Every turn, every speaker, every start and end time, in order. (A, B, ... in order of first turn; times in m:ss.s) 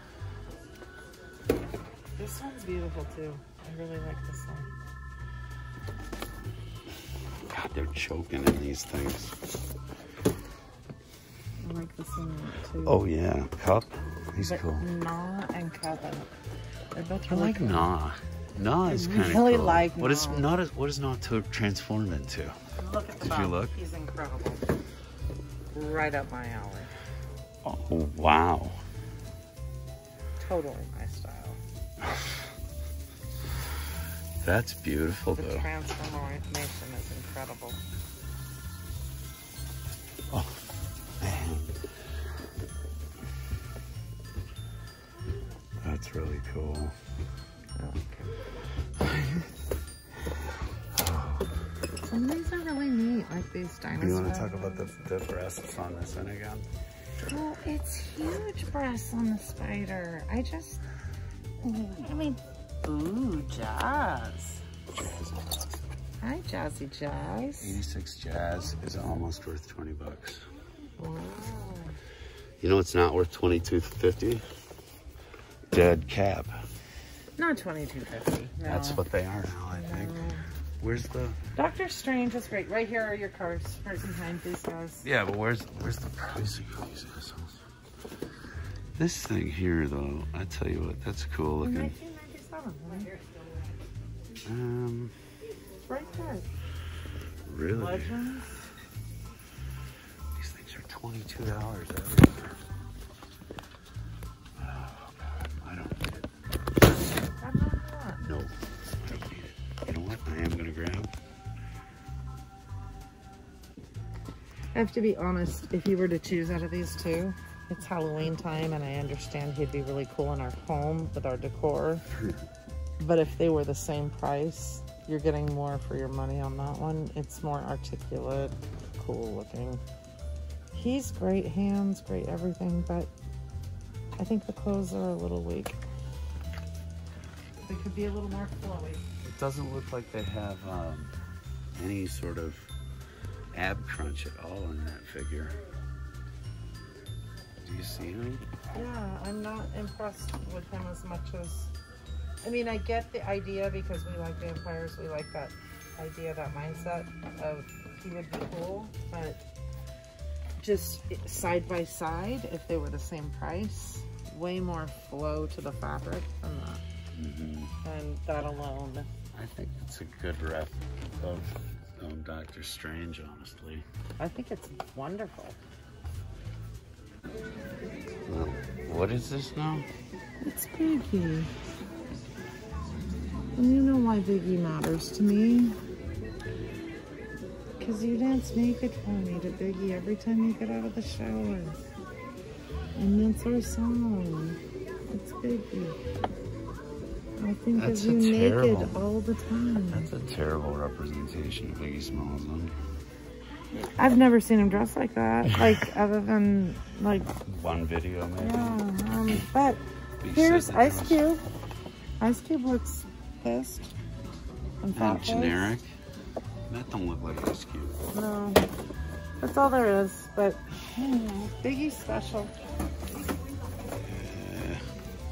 0:02.2-0:04.7 A
0:07.5-0:09.4 B
0:11.6-0:13.0 A
0:12.8-0:14.9 B
0:14.4-0:16.3 A
0:16.9-0:17.9 A
0:17.3-0:22.6 B
0:18.8-0:20.5 A
0:22.8-0:24.6 A
0:23.2-0:23.8 B
0:25.7-0:26.9 A
0:27.6-0:28.8 B
0:30.4-0:31.6 A
0:32.0-0:32.3 B
0:34.4-0:35.7 B
0:35.4-0:37.8 A
0:40.3-0:40.6 B
0:41.2-0:41.8 B
0:45.8-0:47.0 B
0:47.8-0:48.3 A
0:49.0-0:49.5 B
0:50.9-0:51.5 B
0:52.0-0:54.9 A
0:54.0-0:56.7 B
0:57.2-1:00.8 A
1:01.6-1:04.6 A
1:05.0-1:05.7 B
1:06.2-1:07.8 A
1:07.6-1:10.5 B
1:11.0-1:12.0 A
1:12.6-1:14.4 B
1:15.7-1:16.5 B
1:17.4-1:19.0 A
1:18.6-1:20.2 B
1:19.7-1:20.4 A
1:20.8-1:21.4 B
1:21.6-1:25.0 A
1:25.0-1:27.6 B
1:29.0-1:31.9 B
1:31.6-1:33.1 A
1:34.4-1:35.1 B
1:35.9-1:36.5 A
1:37.5-1:38.2 B
1:37.7-1:38.5 A
1:40.4-1:42.6 B
1:44.6-1:46.1 B
1:47.4-1:48.2 A
1:48.2-1:51.1 B
1:54.7-2:02.0 A
2:03.0-2:09.8 A
2:10.7-2:13.1 A
2:14.2-2:15.8 A
2:17.7-2:19.0 A
2:19.2-2:21.1 B
2:21.8-2:22.7 B
2:23.5-2:25.6 B
2:27.6-2:28.4 B
2:28.7-2:31.7 A
2:32.4-2:39.4 A
2:40.6-2:46.8 A
2:47.2-2:47.7 B
2:47.8-2:49.1 A
2:49.3-2:53.8 B
2:54.2-2:55.6 A
2:58.3-2:59.9 B
3:00.4-3:01.5 A
3:03.6-3:05.8 A
3:07.8-3:11.8 A
3:13.0-3:16.0 A
3:17.4-3:20.1 A
3:17.8-3:19.0 B
3:19.9-3:22.7 B
3:23.7-3:27.3 A
3:25.5-3:25.8 B
3:27.5-3:28.8 B
3:28.4-3:31.4 A
3:30.2-3:31.2 B
3:32.2-3:33.9 A
3:34.8-3:35.7 A
3:34.9-3:35.9 B
3:36.7-3:38.0 B
3:38.1-3:38.6 A
3:39.4-3:42.5 A
3:44.1-3:44.8 B